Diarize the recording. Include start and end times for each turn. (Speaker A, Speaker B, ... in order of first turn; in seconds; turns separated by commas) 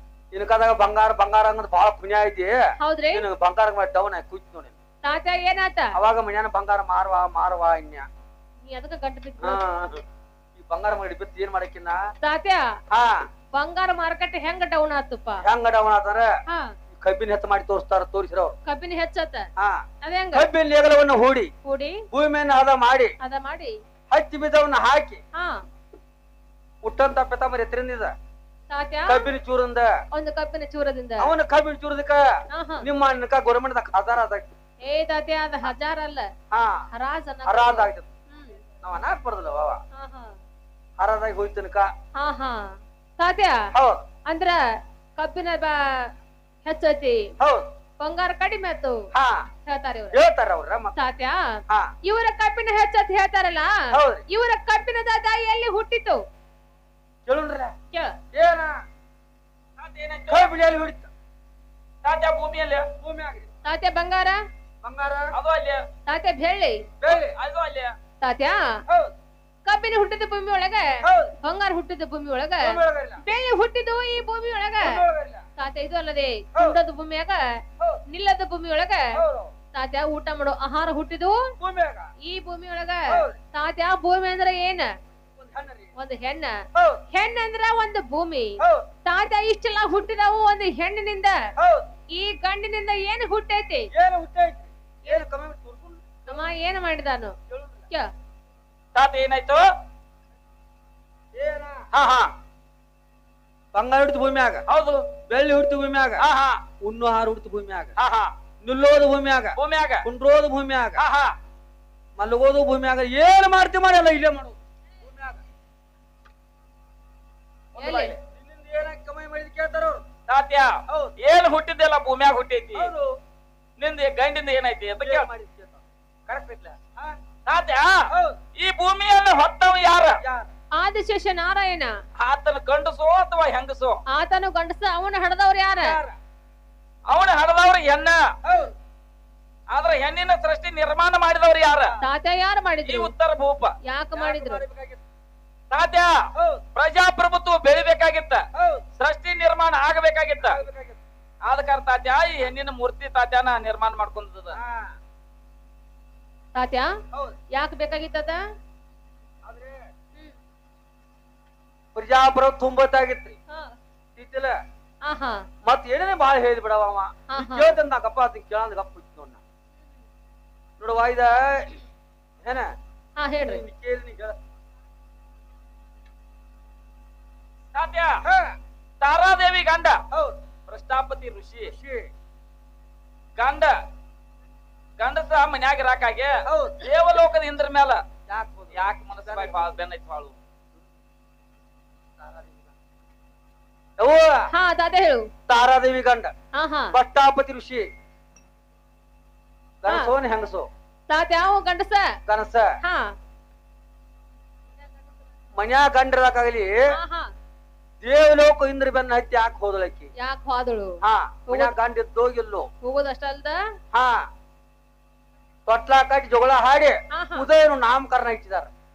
Speaker A: 0.3-4.8, Speaker B: 2.8-3.3, Speaker B: 5.0-5.9, Speaker A: 5.9-8.1, Speaker B: 8.6-9.6, Speaker A: 9.4-10.0, Speaker A: 10.6-12.0, Speaker B: 12.2-12.7, Speaker A: 12.9-13.3, Speaker B: 13.5-15.4, Speaker A: 15.4-16.4, Speaker B: 16.5-16.7, Speaker A: 16.9-18.6, Speaker B: 18.6-19.5, Speaker A: 19.6-21.5, Speaker B: 20.0-20.5, Speaker B: 21.6-22.1, Speaker A: 22.1-23.1, Speaker B: 23.2-23.8, Speaker A: 24.1-25.2, Speaker B: 25.3-25.6, Speaker A: 26.8-28.1, Speaker B: 28.7-29.3, Speaker A: 29.1-29.9, Speaker B: 30.1-31.3, Speaker A: 31.2-34.5, Speaker B: 32.5-32.9, Speaker B: 34.8-36.3, Speaker A: 36.5-36.9, Speaker B: 36.9-38.6, Speaker A: 37.4-38.1, Speaker A: 38.8-39.8, Speaker B: 39.9-40.4, Speaker A: 41.0-41.9, Speaker B: 42.2-43.7, Speaker A: 43.7-44.0, Speaker B: 44.3-44.6, Speaker B: 45.2-46.1, Speaker B: 46.6-47.3, Speaker A: 47.4-47.7, Speaker B: 48.0-49.0, Speaker A: 49.1-49.5, Speaker B: 49.6-50.2, Speaker A: 50.1-50.9, Speaker B: 50.9-56.2, Speaker A: 53.9-54.2, Speaker A: 57.2-57.7, Speaker B: 57.9-58.2, Speaker A: 58.3-58.8, Speaker C: 59.8-60.5, Speaker A: 60.3-61.1, Speaker C: 62.0-62.9, Speaker A: 63.0-63.5, Speaker B: 63.6-64.4, Speaker A: 64.8-65.3, Speaker C: 65.3-65.8, Speaker B: 66.0-66.8, Speaker A: 67.0-67.3, Speaker C: 67.0-67.9, Speaker B: 68.2-68.8, Speaker B: 69.7-75.0, Speaker A: 71.0-71.3, Speaker A: 72.6-73.2, Speaker A: 74.8-75.4, Speaker B: 75.6-79.2, Speaker A: 79.1-79.5, Speaker B: 79.7-81.5, Speaker A: 81.6-82.1, Speaker B: 82.2-84.9, Speaker A: 83.1-83.3, Speaker A: 85.3-85.9, Speaker B: 86.0-91.5, Speaker A: 86.7-87.0, Speaker A: 88.6-88.9, Speaker A: 91.6-91.9, Speaker B: 92.1-93.9, Speaker A: 93.9-96.5, Speaker B: 96.3-97.3, Speaker A: 97.5-97.8, Speaker C: 98.9-99.6, Speaker A: 101.3-101.9, Speaker C: 101.9-102.3, Speaker A: 103.7-104.6, Speaker C: 104.7-105.1, Speaker A: 105.2-106.2, Speaker C: 106.2-106.6, Speaker A: 106.8-107.9, Speaker C: 108.0-108.3, Speaker A: 108.6-111.0, Speaker C: 109.5-110.1, Speaker C: 111.0-111.3, Speaker A: 112.2-115.4, Speaker A: 117.8-120.1, Speaker B: 117.8-118.1, Speaker C: 120.3-122.9, Speaker A: 120.9-121.2, Speaker A: 122.7-123.1, Speaker C: 123.8-125.3, Speaker A: 125.0-125.8, Speaker C: 126.3-126.8, Speaker C: 127.5-130.2, Speaker A: 128.1-128.4, Speaker A: 130.2-130.5, Speaker B: 130.8-131.9, Speaker C: 132.2-134.0, Speaker B: 134.1-136.0, Speaker A: 135.8-136.2, Speaker C: 137.1-138.3, Speaker A: 138.4-138.7, Speaker C: 139.7-141.9, Speaker B: 142.0-143.1, Speaker C: 142.8-143.7, Speaker B: 143.8-144.6, Speaker A: 144.1-145.0, Speaker C: 145.7-146.2, Speaker A: 146.3-146.6, Speaker C: 146.7-148.4, Speaker A: 148.5-148.8, Speaker C: 149.0-150.6, Speaker A: 150.4-151.0, Speaker C: 151.4-154.6, Speaker A: 154.5-155.0, Speaker B: 156.5-157.0, Speaker B: 157.5-158.4, Speaker A: 159.4-159.9, Speaker A: 161.9-163.4, Speaker B: 163.5-163.8, Speaker A: 164.2-164.6, Speaker B: 165.0-165.5, Speaker A: 165.6-169.4, Speaker B: 167.3-167.8, Speaker A: 170.8-171.8, Speaker A: 172.4-172.7, Speaker B: 173.2-173.6, Speaker A: 173.4-174.4, Speaker C: 177.7-178.2, Speaker A: 178.2-178.6, Speaker C: 179.0-180.0, Speaker A: 180.1-180.4, Speaker C: 180.7-181.7, Speaker A: 181.6-182.1, Speaker C: 183.4-183.8, Speaker C: 185.0-188.0, Speaker A: 186.4-186.9, Speaker A: 188.3-189.7, Speaker C: 188.7-190.3, Speaker A: 192.2-192.7, Speaker A: 194.0-194.5, Speaker B: 194.5-195.3, Speaker A: 195.5-196.3, Speaker B: 196.5-197.0, Speaker A: 196.9-197.9, Speaker A: 199.8-200.7, Speaker B: 199.9-200.1, Speaker B: 201.1-202.2, Speaker A: 202.2-202.8, Speaker B: 202.8-203.1, Speaker B: 204.8-205.1, Speaker A: 205.5-206.9, Speaker B: 206.9-207.3, Speaker A: 208.0-210.1, Speaker B: 210.2-211.7, Speaker A: 211.0-212.7, Speaker B: 212.8-213.6, Speaker A: 213.9-214.3, Speaker A: 215.7-218.7, Speaker B: 217.1-217.5